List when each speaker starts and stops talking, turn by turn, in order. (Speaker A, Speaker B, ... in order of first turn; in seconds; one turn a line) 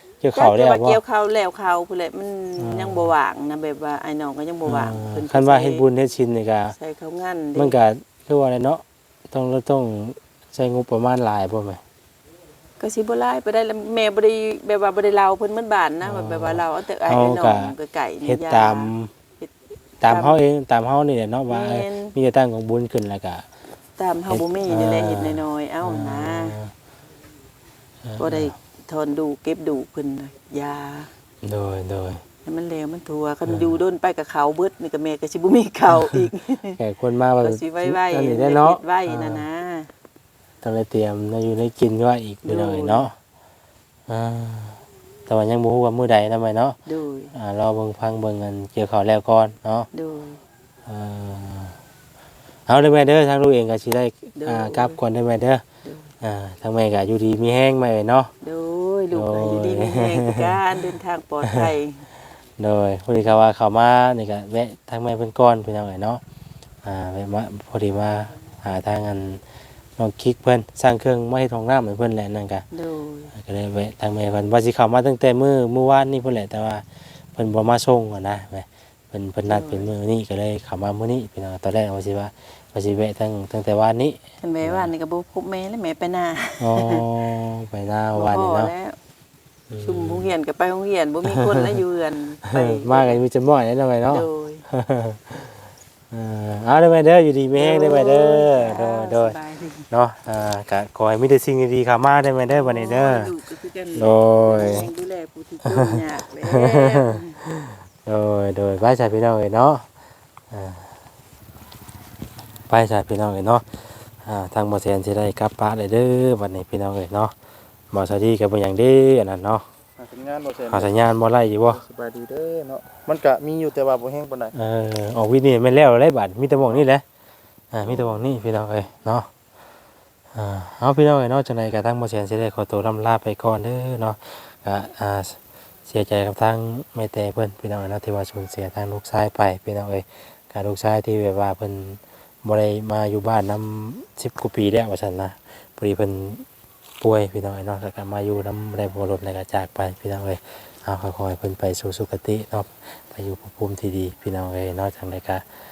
Speaker A: 0.2-1.0
Speaker B: 0.3-5.8
Speaker A: 2.6-3.1
Speaker A: 4.7-6.8
Speaker B: 6.7-7.8
Speaker A: 7.6-11.8
Speaker B: 12.8-19.5
Speaker A: 16.0-19.1
Speaker A: 20.0-23.4
Speaker B: 20.1-20.4
Speaker B: 21.5-22.1
Speaker B: 24.0-26.6
Speaker A: 24.3-26.7
Speaker A: 28.0-28.6
Speaker B: 28.2-31.1
Speaker A: 31.4-32.2
Speaker B: 32.5-36.8
Speaker A: 33.5-33.8
Speaker A: 36.8-39.4
Speaker B: 37.4-39.9
Speaker A: 40.6-43.1
Speaker B: 42.4-43.1
Speaker A: 44.1-46.8
Speaker B: 46.9-47.3
Speaker A: 47.3-49.9
Speaker B: 49.9-50.4
Speaker A: 50.9-51.8
Speaker A: 52.7-55.6
Speaker B: 54.4-55.0
Speaker B: 55.8-56.1
Speaker A: 56.2-58.3
Speaker B: 58.4-62.0
Speaker A: 59.1-60.6
Speaker A: 61.4-61.7
Speaker A: 62.6-66.2
Speaker A: 66.8-69.4
Speaker A: 70.0-72.6
Speaker B: 72.7-73.3
Speaker A: 73.3-84.9
Speaker B: 79.5-79.9
Speaker B: 84.4-87.0
Speaker A: 86.6-88.7
Speaker B: 88.2-89.0
Speaker A: 89.7-90.3
Speaker B: 89.8-93.2
Speaker A: 91.2-91.8
Speaker A: 92.5-95.5
Speaker B: 94.1-94.7
Speaker A: 96.1-99.4
Speaker B: 97.5-99.9
Speaker A: 99.9-103.3
Speaker B: 102.5-107.4
Speaker A: 104.0-104.9
Speaker A: 105.7-109.9
Speaker A: 110.5-110.9
Speaker A: 112.7-113.7
Speaker A: 114.2-117.3
Speaker A: 117.9-119.6
Speaker C: 120.0-121.0
Speaker A: 120.7-121.8
Speaker C: 121.7-124.5
Speaker A: 124.5-127.0
Speaker A: 127.7-129.3
Speaker A: 130.3-146.4
Speaker A: 147.0-155.4